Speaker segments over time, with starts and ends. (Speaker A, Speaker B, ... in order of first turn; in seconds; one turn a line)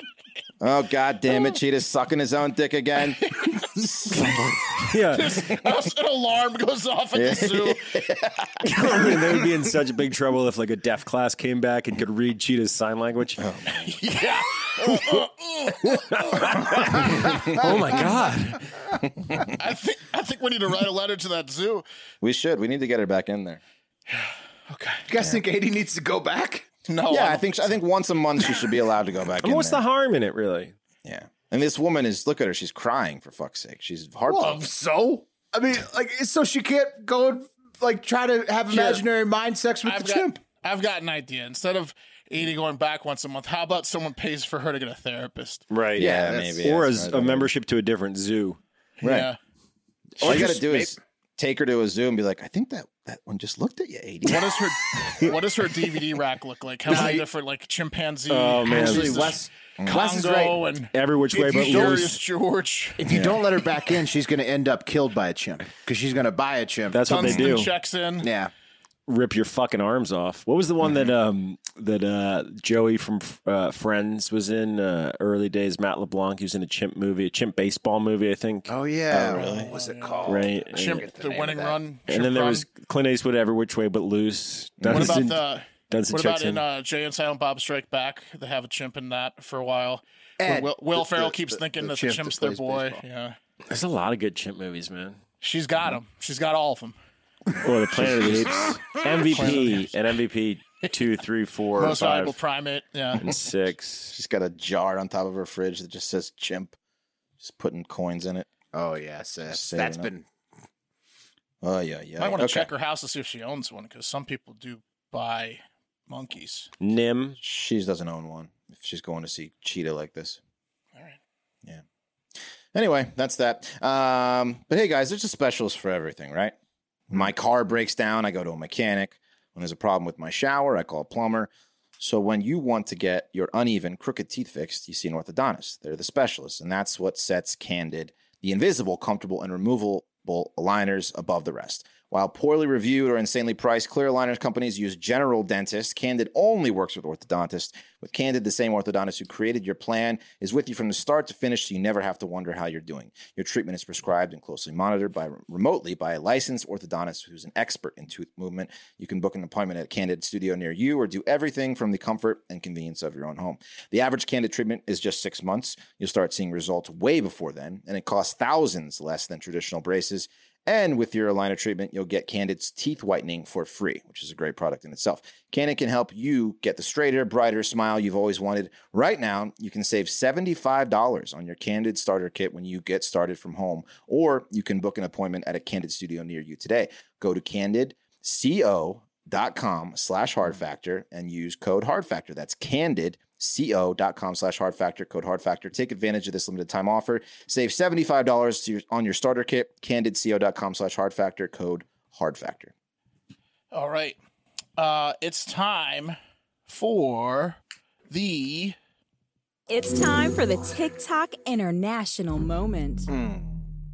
Speaker A: 0.6-4.8
Speaker B: 4.1-5.5
Speaker C: 5.1-8.0
Speaker A: 7.1-9.5
Speaker B: 8.6-13.4
Speaker A: 13.4-13.9
Speaker C: 13.7-17.3
Speaker B: 15.8-18.6
Speaker A: 16.9-18.1
Speaker A: 19.2-19.5
Speaker C: 19.4-21.8
Speaker A: 22.2-23.6
Speaker C: 24.1-25.1
Speaker D: 25.1-26.7
Speaker C: 26.9-27.8
Speaker A: 27.1-29.8
Speaker B: 29.4-30.7
Speaker A: 31.1-34.7
Speaker D: 34.3-40.4
Speaker C: 39.8-45.6
Speaker B: 45.7-48.6
Speaker A: 46.0-47.5
Speaker D: 46.0-46.6
Speaker C: 49.0-49.4
Speaker A: 49.0-49.3
Speaker D: 50.2-50.9
Speaker A: 50.2-55.3
Speaker C: 54.2-63.1
Speaker D: 56.9-57.2
Speaker B: 58.3-59.4
Speaker D: 58.7-60.6
Speaker B: 60.9-62.2
Speaker D: 63.0-67.5
Speaker A: 63.1-63.4
Speaker B: 66.9-67.7
Speaker C: 67.1-68.3
Speaker D: 68.2-68.5
Speaker B: 69.1-78.7
Speaker D: 78.7-81.8
Speaker A: 79.1-79.7
Speaker C: 79.3-82.7
Speaker B: 80.3-81.0
Speaker B: 82.1-86.6
Speaker A: 84.8-85.2
Speaker C: 84.9-93.4
Speaker D: 90.4-93.0
Speaker B: 93.7-95.2
Speaker C: 95.4-97.0
Speaker B: 97.6-102.4
Speaker C: 99.3-99.9
Speaker C: 101.8-103.2
Speaker B: 103.2-104.1
Speaker A: 104.1-106.7
Speaker A: 107.4-108.5
Speaker D: 108.7-110.2
Speaker A: 109.5-110.1
Speaker A: 111.6-112.7
Speaker C: 112.2-116.7
Speaker B: 116.8-117.4
Speaker A: 117.4-120.4
Speaker A: 122.7-126.5
Speaker A: 127.1-202.7
Speaker C: 203.7-204.2
Speaker C: 204.8-207.6
Speaker C: 208.1-208.8
Speaker E: 209.7-213.1